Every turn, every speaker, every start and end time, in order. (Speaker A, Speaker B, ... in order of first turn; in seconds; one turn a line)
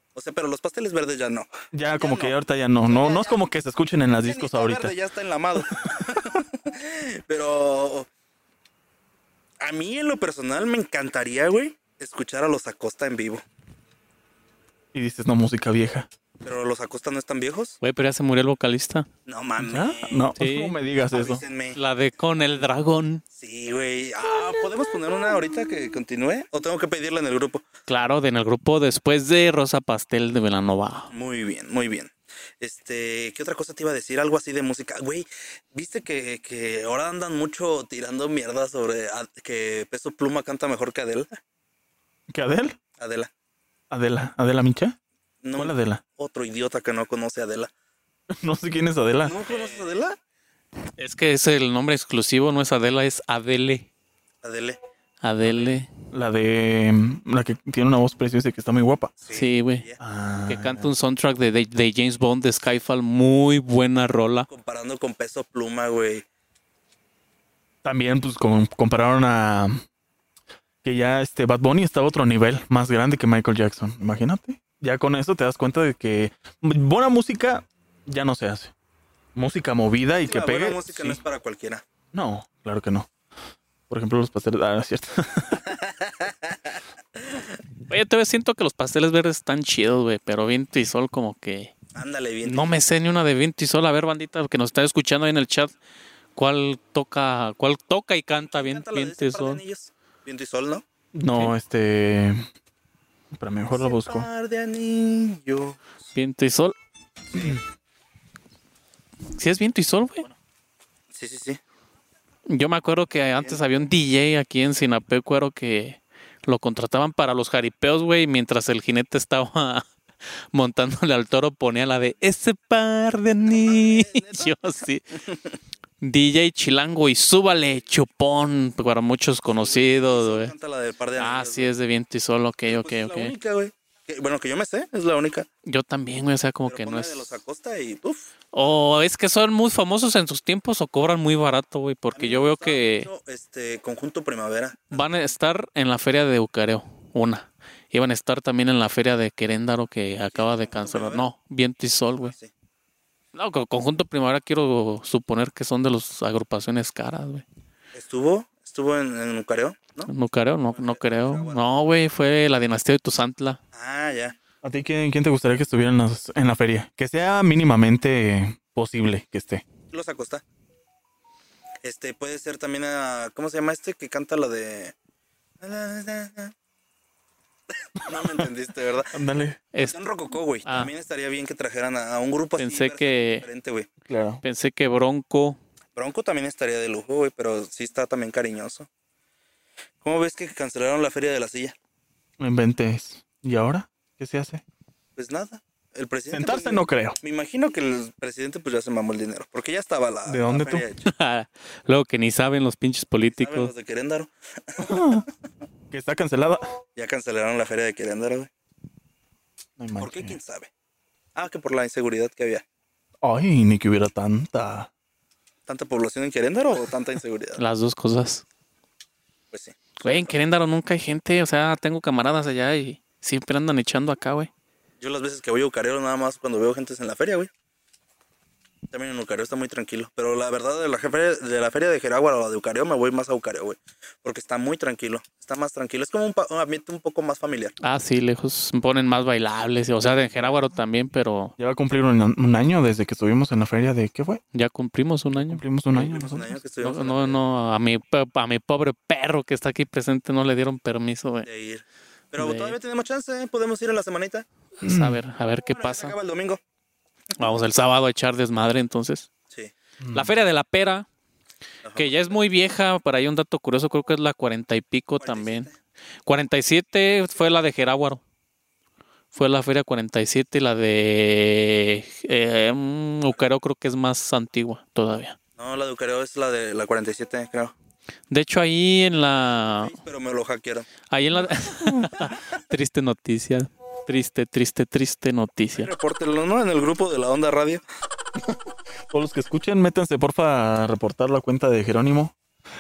Speaker A: 0.1-2.4
Speaker B: 1.7-4.9
Speaker A: 2.9-3.4
Speaker A: 4.2-8.1
Speaker A: 9.6-13.4
Speaker B: 14.9-16.1
Speaker A: 16.4-17.8
Speaker C: 17.8-19.1
Speaker A: 19.3-20.3
Speaker B: 19.6-21.4
Speaker C: 20.4-20.8
Speaker A: 21.1-21.8
Speaker C: 21.8-23.2
Speaker A: 23.3-27.6
Speaker C: 27.9-31.1
Speaker A: 31.1-41.3
Speaker B: 42.3-42.8
Speaker A: 43.0-43.3
Speaker B: 43.9-45.0
Speaker A: 45.4-47.7
Speaker B: 45.6-46.0
Speaker B: 48.4-49.4
Speaker A: 49.2-50.2
Speaker C: 51.0-53.9
Speaker A: 54.4-54.8
Speaker C: 55.2-55.9
Speaker A: 55.4-55.8
Speaker B: 56.1-59.1
Speaker A: 59.2-60.0
Speaker C: 59.3-59.9
Speaker B: 60.0-60.9
Speaker C: 60.5-64.5
Speaker A: 64.5-66.2
Speaker B: 67.8-69.8
Speaker B: 70.8-78.7
Speaker B: 79.3-81.2
Speaker A: 80.2-81.8
Speaker B: 82.1-83.1
Speaker B: 83.9-85.6
Speaker A: 85.5-87.4
Speaker C: 87.9-91.7
Speaker A: 92.0-92.7
Speaker C: 92.4-95.7
Speaker C: 96.4-99.6
Speaker A: 98.4-100.8
Speaker B: 101.1-102.5
Speaker B: 103.3-104.3
Speaker A: 103.7-106.1
Speaker C: 106.2-106.8
Speaker A: 107.3-107.6
Speaker C: 109.4-110.3
Speaker A: 111.1-111.6
Speaker C: 112.5-119.9
Speaker A: 113.4-113.8
Speaker C: 120.5-125.0
Speaker A: 123.5-124.6
Speaker A: 125.1-125.6
Speaker C: 126.0-130.5
Speaker A: 129.5-131.7
Speaker C: 131.2-133.3
Speaker A: 132.7-135.5
Speaker C: 135.7-137.4
Speaker A: 136.7-138.3
Speaker C: 138.5-143.1
Speaker A: 142.2-145.1
Speaker C: 144.9-152.3
Speaker A: 150.3-151.3
Speaker A: 152.2-152.5
Speaker C: 153.3-157.4
Speaker A: 157.9-160.1
Speaker C: 160.1-163.6
Speaker A: 160.7-161.7
Speaker A: 163.7-164.4
Speaker B: 164.6-169.6
Speaker A: 169.9-170.4
Speaker A: 171.8-174.9
Speaker A: 175.6-176.5
Speaker A: 177.9-179.1
Speaker B: 179.1-179.6
Speaker A: 179.8-183.9
Speaker C: 180.7-180.9
Speaker C: 182.6-183.5
Speaker B: 184.1-184.4
Speaker C: 184.4-185.6
Speaker A: 185.9-188.9
Speaker A: 190.0-191.8
Speaker B: 192.4-194.6
Speaker A: 195.2-201.1
Speaker B: 196.3-197.2
Speaker B: 200.3-200.8
Speaker C: 201.1-203.7
Speaker A: 203.4-205.3
Speaker B: 204.8-205.3
Speaker B: 205.9-206.8
Speaker A: 207.0-208.5
Speaker B: 209.8-210.4
Speaker A: 210.0-210.7
Speaker A: 211.4-212.6
Speaker B: 213.2-214.9
Speaker A: 215.7-217.6
Speaker C: 217.6-218.4
Speaker A: 219.5-220.4
Speaker C: 220.0-224.5
Speaker A: 225.0-227.5
Speaker A: 228.9-237.7
Speaker C: 237.8-241.6
Speaker B: 241.6-244.4
Speaker C: 244.5-245.6
Speaker B: 245.3-246.6
Speaker A: 245.9-247.4
Speaker C: 246.8-251.5
Speaker A: 251.4-254.5
Speaker C: 252.4-252.8
Speaker C: 254.8-256.2
Speaker B: 254.8-255.2
Speaker A: 255.7-256.6
Speaker C: 257.4-259.3
Speaker B: 260.0-260.4
Speaker C: 260.1-261.1
Speaker A: 261.8-262.4
Speaker C: 262.0-265.7
Speaker A: 265.2-265.8
Speaker C: 266.3-268.2
Speaker C: 269.3-275.4
Speaker A: 275.6-277.7
Speaker C: 278.3-280.0
Speaker A: 279.8-280.9
Speaker C: 281.0-285.9
Speaker A: 285.8-287.8
Speaker B: 289.1-292.4